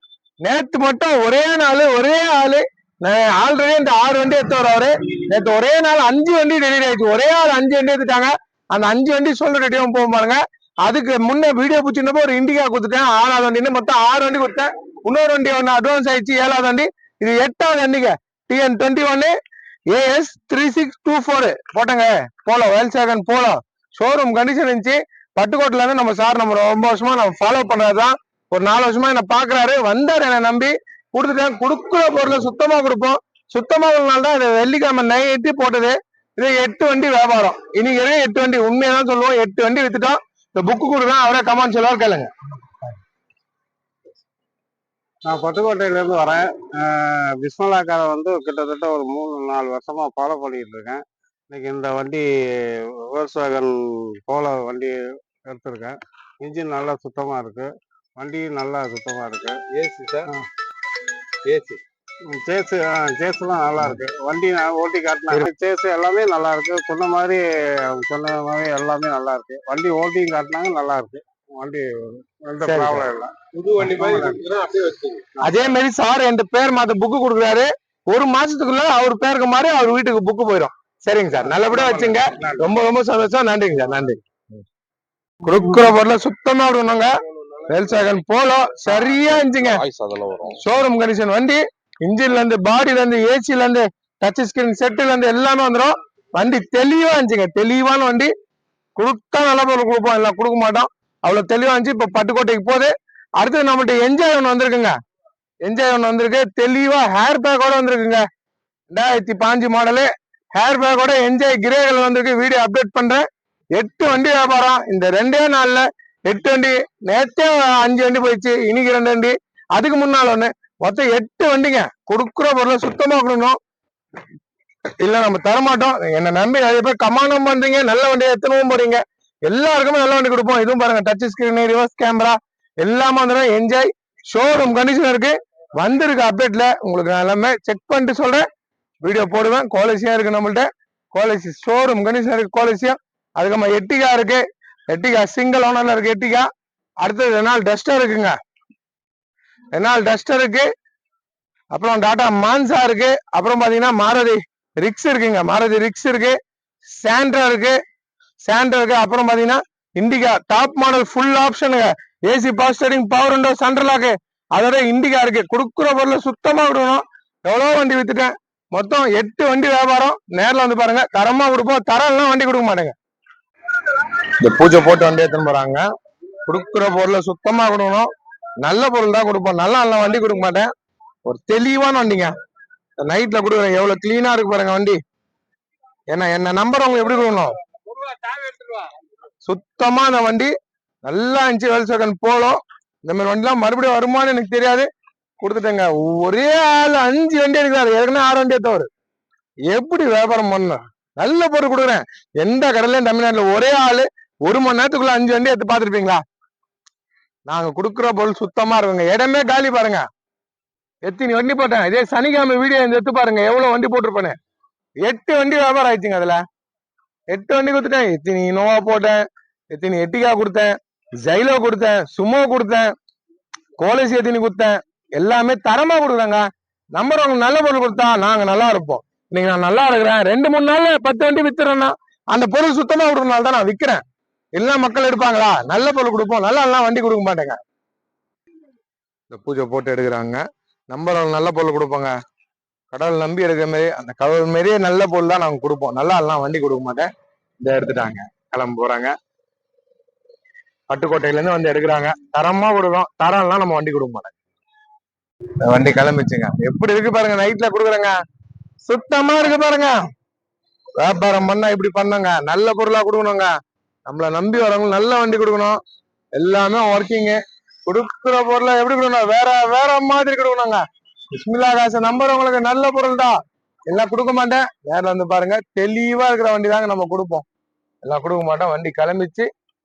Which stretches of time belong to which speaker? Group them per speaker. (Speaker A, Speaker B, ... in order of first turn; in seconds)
Speaker A: 0.5-19.3, 19.9-42.3, 72.6-73.1, 75.4-84.2, 85.4-87.1, 87.6-89.8, 90.5-98.3, 99.0-104.9, 105.7-108.2, 108.9-113.2, 113.8-123.6, 125.0-138.4, 139.0-146.5, 147.0-148.3, 149.7-150.7, 151.7-156.4, 157.0-157.8, 158.4-172.9, 174.4-175.8, 176.5-178.1, 178.6-180.7, 181.3-182.3, 183.0-185.0, 186.1-187.6, 189.4-190.5, 191.1-194.9, 195.4-198.9, 199.7-206.2, 207.5-210.0, 211.1-214.3, 215.1-216.4, 217.3-219.2, 219.7-220.7, 221.2-222.9, 223.8-226.4, 226.9-234.0, 234.6-237.6, 239.3-240.4, 240.9-242.1, 242.9-247.1, 247.6-249.1, 250.9-254.3, 255.6-258.1, 258.9-259.9, 261.0-263.5, 264.1-265.8, 266.4-270.8, 271.3-273.4, 273.9-277.5, 278.0-279.5
Speaker B: 45.3-59.7, 62.3-74.6, 75.3-75.6, 81.4-82.6
Speaker C: 59.8-60.2, 61.5-61.8, 73.5-75.2, 89.3-90.5